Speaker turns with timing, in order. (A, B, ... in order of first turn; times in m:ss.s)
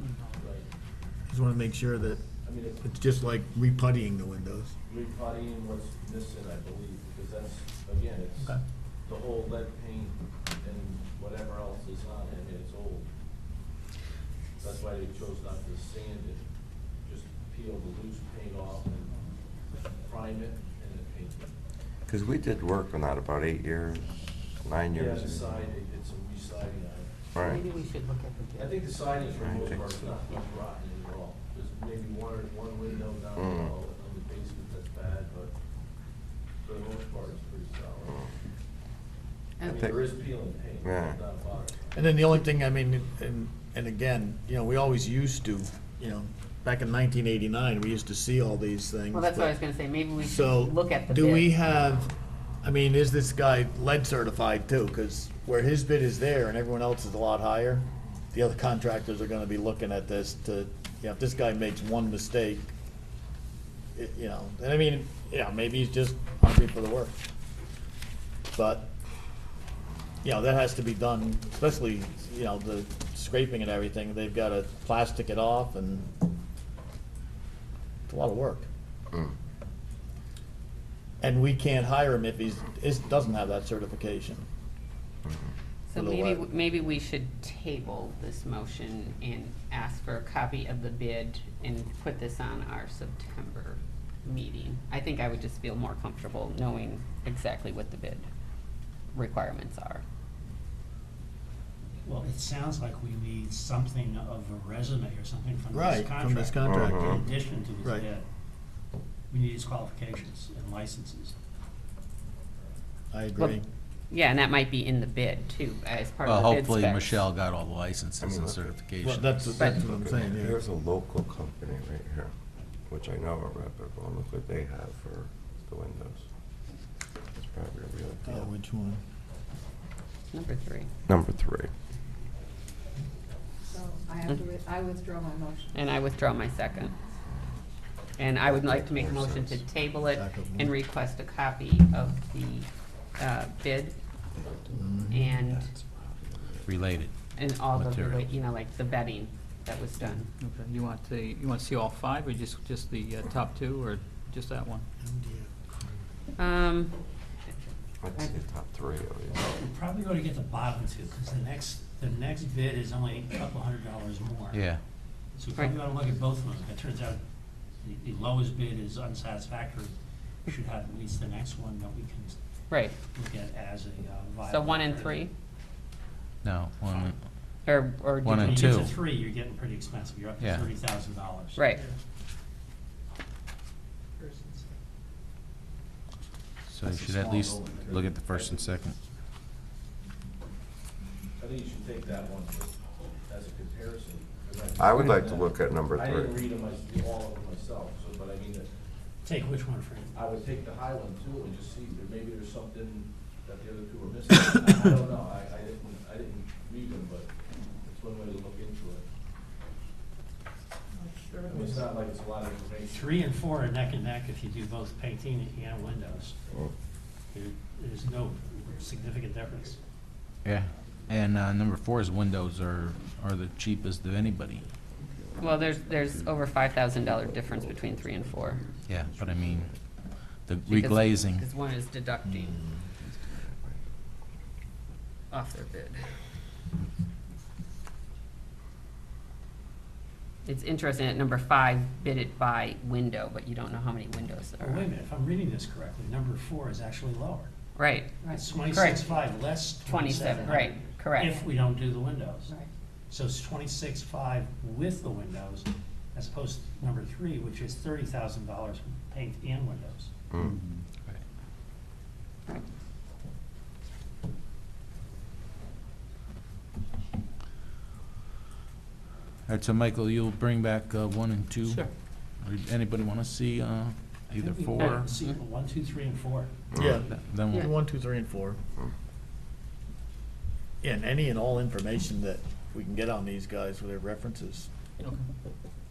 0:00.3-0:00.7 A
0:01.3-0:02.2 B
0:02.4-0:02.8 A
0:02.8-0:04.7 B
0:04.9-0:13.1 A
0:14.6-0:16.4 A
0:17.0-0:19.1 A
0:20.0-0:21.5 A
0:22.1-0:25.7 C
0:24.9-0:27.1 A
0:27.3-0:27.6 C
0:27.4-0:28.0 D
0:28.6-0:35.5 A
0:29.4-0:30.0 C
0:33.4-0:33.7 C
0:36.6-0:38.2 A
0:39.6-0:40.0 D
0:39.6-0:41.8 A
0:39.7-0:40.0 C
0:40.8-0:41.2 C
0:41.9-0:49.6 B
0:49.1-0:51.5 D
0:50.2-0:52.1 B
0:52.6-1:02.7 B
1:04.0-1:07.2 B
1:08.5-1:08.9 B
1:10.2-1:16.2 B
1:18.1-1:18.7 B
1:21.2-1:24.4 B
1:25.9-1:38.3 D
1:25.9-1:26.5 B
1:39.1-1:40.0 D
1:42.0-1:48.2 E
1:45.7-1:47.2 B
1:46.6-1:47.2 C
1:49.3-1:51.3 E
1:53.1-1:53.7 B
1:54.1-1:57.2 D
1:56.2-1:59.6 F
1:58.2-1:58.8 C
1:59.0-2:00.6 B
1:59.6-2:02.3 C
1:59.6-1:59.8 D
2:02.9-2:06.2 C
2:07.3-2:08.5 C
2:08.3-2:09.0 B
2:10.3-2:10.9 D
2:11.1-2:11.7 C
2:13.7-2:15.9 G
2:15.7-2:17.0 D
2:18.2-2:24.0 D
2:18.4-2:19.6 C
2:20.1-2:20.7 B
2:24.4-2:26.8 C
2:24.8-2:25.4 B
2:25.1-2:25.7 D
2:26.7-2:27.1 F
2:27.4-2:30.3 D
2:27.6-2:28.3 F
2:30.4-2:34.9 H
2:35.0-2:35.9 B
2:36.4-2:37.0 D
2:38.0-2:39.5 C
2:39.5-2:44.6 E
2:44.5-2:44.8 F
2:45.4-2:47.2 E
2:47.8-2:50.0 E
2:50.5-2:52.4 E
2:53.1-2:55.3 E
2:54.4-2:55.3 D
2:56.4-2:57.2 F
2:57.7-2:58.9 D
2:58.2-2:58.9 F
2:58.3-3:01.7 E
3:00.4-3:00.7 F
3:01.6-3:01.8 D
3:06.7-3:09.0 F
3:07.0-3:08.6 A
3:11.4-3:18.7 A
3:14.8-3:16.4 C
3:19.2-3:20.2 E
3:20.1-3:27.3 A
3:27.8-3:29.0 A
3:31.0-3:31.8 G
3:31.4-3:33.4 A
3:32.9-3:36.4 E
3:37.3-3:39.8 E
3:40.4-3:44.6 F
3:45.4-3:48.6 D
3:48.9-3:49.7 F
3:49.1-3:49.6 C
3:50.3-3:51.5 F
3:50.7-3:52.6 D
3:52.3-3:52.7 B
3:53.0-3:53.8 C
3:55.3-3:56.0 D
4:00.4-4:04.9 D
4:04.6-4:07.5 E
4:07.8-4:08.2 D
4:08.2-4:08.7 G
4:08.3-4:12.5 E
4:08.7-4:09.0 D
4:09.8-4:11.4 D
4:13.1-4:20.1 E
4:29.5-4:35.1 F
4:34.3-4:36.5 E
4:36.7-4:37.0 C
4:36.7-4:38.6 B
4:37.1-4:37.7 F
4:40.8-4:44.7 B